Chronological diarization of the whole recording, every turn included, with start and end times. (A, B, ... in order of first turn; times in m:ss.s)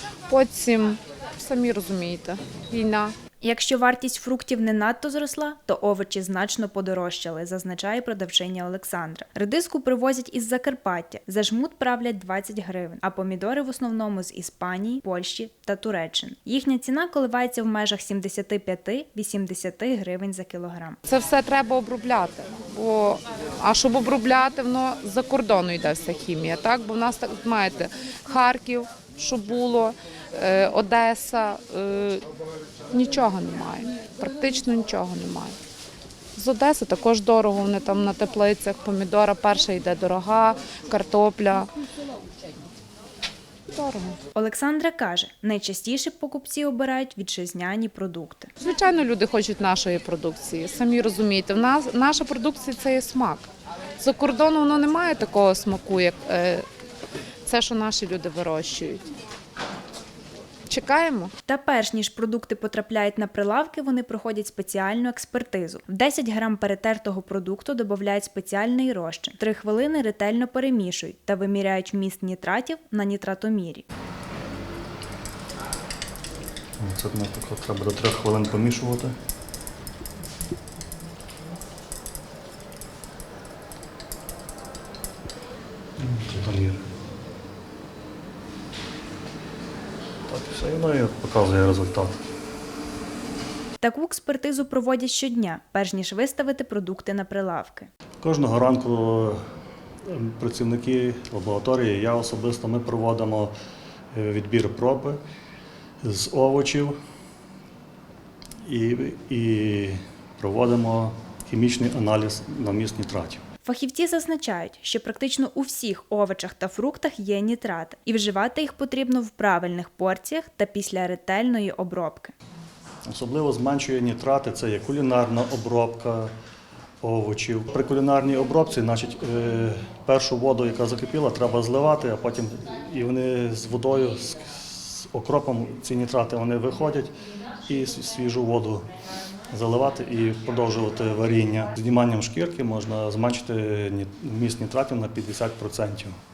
0:00.3-0:03.1 A
0:03.4-0:21.0 B
0:21.0-0:32.2 A
0:32.9-0:35.6 A
0:36.3-0:41.7 A
0:43.7-0:44.2 A
0:44.3-0:48.5 B
0:48.6-0:56.6 A
0:57.4-0:59.0 A
1:00.7-1:01.3 A
1:01.4-1:13.8 B
1:16.8-1:19.1 C
1:26.0-1:26.8 C
1:30.3-1:32.2 C
1:33.8-1:37.9 B
1:38.2-1:39.4 C
1:40.0-1:43.5 C
1:44.1-1:45.2 C
1:46.0-1:47.0 C
1:48.6-1:53.4 C
1:53.6-2:02.3 B
2:03.1-2:06.3 C
2:07.0-2:18.9 C
2:19.5-2:26.2 C